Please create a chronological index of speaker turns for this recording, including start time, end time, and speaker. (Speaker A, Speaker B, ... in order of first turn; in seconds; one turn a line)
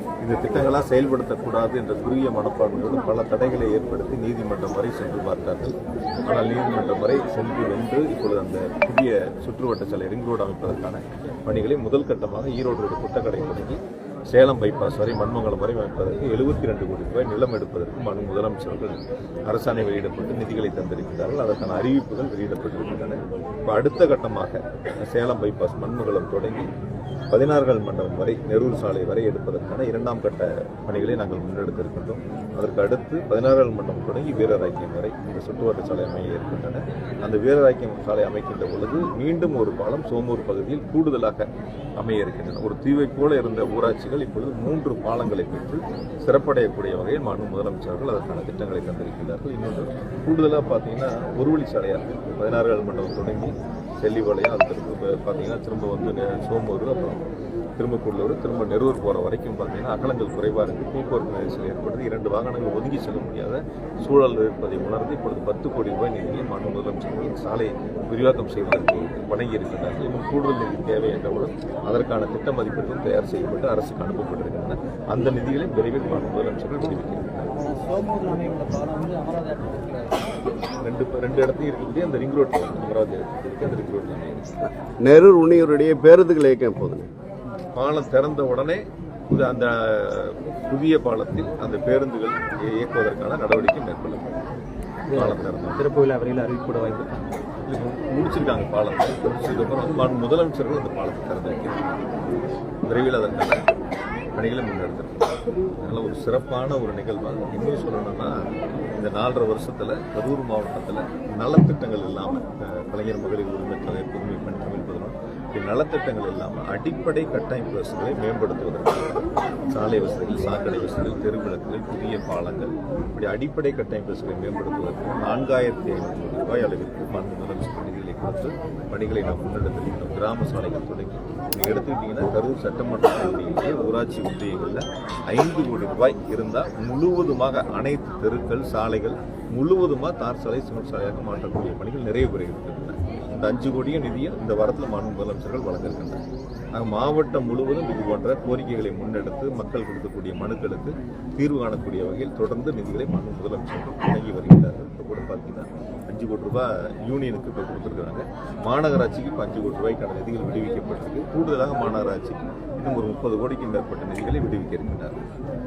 Speaker A: 0.2-26.7
Speaker A: 27.3-41.5
Speaker A: 42.0-57.2
Speaker A: 57.8-77.5
Speaker B: 77.6-80.3
Speaker A: 80.8-84.6
Speaker C: 85.0-87.1
Speaker A: 87.7-94.2
Speaker B: 95.1-97.2
Speaker A: 95.1-95.9
Speaker A: 97.7-101.9
Speaker A: 102.9-103.6
Speaker A: 104.3-105.2
Speaker A: 105.8-146.2
Speaker A: 146.8-165.2